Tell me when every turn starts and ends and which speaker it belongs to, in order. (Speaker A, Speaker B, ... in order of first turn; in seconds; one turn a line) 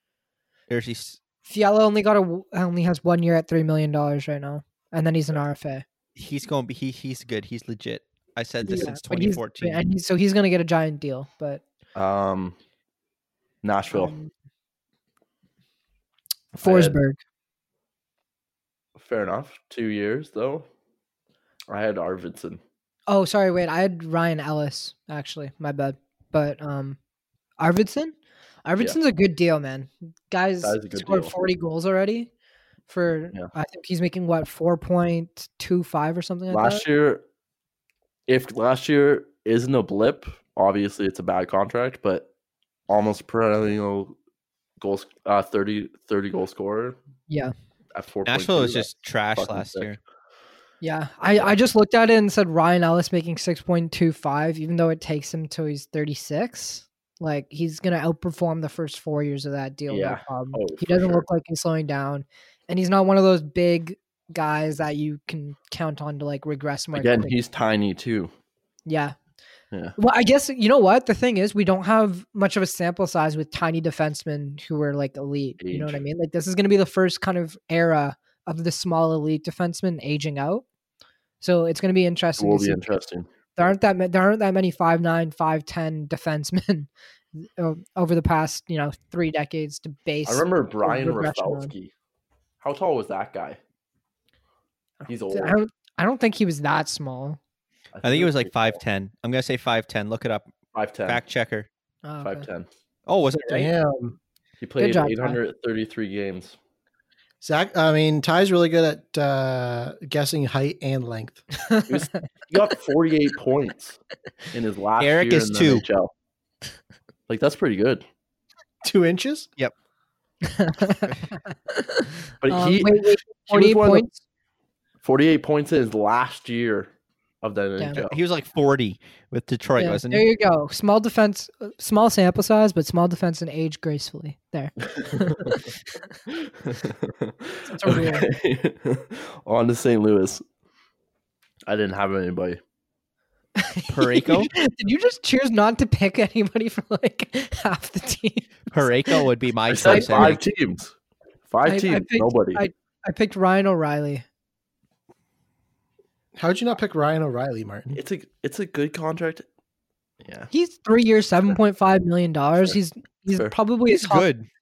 Speaker A: 0.7-1.2
Speaker B: 1.5-5.8
Speaker A: 6.2-9.8
Speaker B: 8.6-11.6
Speaker C: 11.9-12.6
Speaker C: 13.6-14.1
Speaker B: 13.9-14.3
Speaker B: 16.6-17.2
Speaker C: 16.6-17.0
Speaker C: 19.0-20.7
Speaker C: 21.7-22.6
Speaker B: 23.1-27.0
Speaker B: 27.6-28.1
Speaker B: 28.6-32.3
Speaker C: 30.6-31.3
Speaker B: 32.9-36.8
Speaker C: 36.5-37.2
Speaker C: 38.3-42.3
Speaker C: 42.9-44.2
Speaker C: 44.8-47.0
Speaker C: 48.0-49.9
Speaker A: 48.3-50.0
Speaker B: 50.8-67.3
Speaker C: 59.9-61.2
Speaker C: 66.9-68.3
Speaker B: 68.9-69.2
Speaker B: 70.0-80.7
Speaker C: 75.6-76.0
Speaker B: 81.4-82.8
Speaker C: 82.4-83.3
Speaker B: 83.6-91.7
Speaker C: 90.3-91.9
Speaker C: 92.6-93.6
Speaker C: 95.1-95.6
Speaker B: 95.3-97.4
Speaker C: 97.9-98.8
Speaker A: 98.0-100.5
Speaker C: 100.7-101.2
Speaker A: 101.1-101.7
Speaker B: 102.0-102.5
Speaker C: 102.2-102.7
Speaker A: 103.1-103.7
Speaker D: 103.5-104.2
Speaker C: 104.6-106.6
Speaker B: 104.8-105.4
Speaker D: 107.4-111.4
Speaker B: 111.7-112.0
Speaker C: 111.9-114.0
Speaker C: 114.5-116.1
Speaker A: 115.0-115.8
Speaker C: 117.3-118.0
Speaker D: 118.8-119.5
Speaker B: 120.4-124.2
Speaker C: 122.4-124.0
Speaker C: 125.0-126.9
Speaker C: 127.4-128.2
Speaker A: 128.0-130.3
Speaker B: 129.8-135.7
Speaker C: 135.0-135.5
Speaker C: 136.7-140.4
Speaker B: 137.7-138.3
Speaker C: 141.7-142.6
Speaker B: 143.6-149.2
Speaker A: 143.9-144.5
Speaker A: 148.7-150.4
Speaker C: 149.7-150.9
Speaker B: 149.9-150.4
Speaker C: 151.5-152.6
Speaker B: 151.7-154.2
Speaker D: 156.3-158.0
Speaker C: 157.9-159.5
Speaker C: 160.2-160.5
Speaker B: 160.5-164.3
Speaker C: 163.3-163.5
Speaker A: 163.9-164.5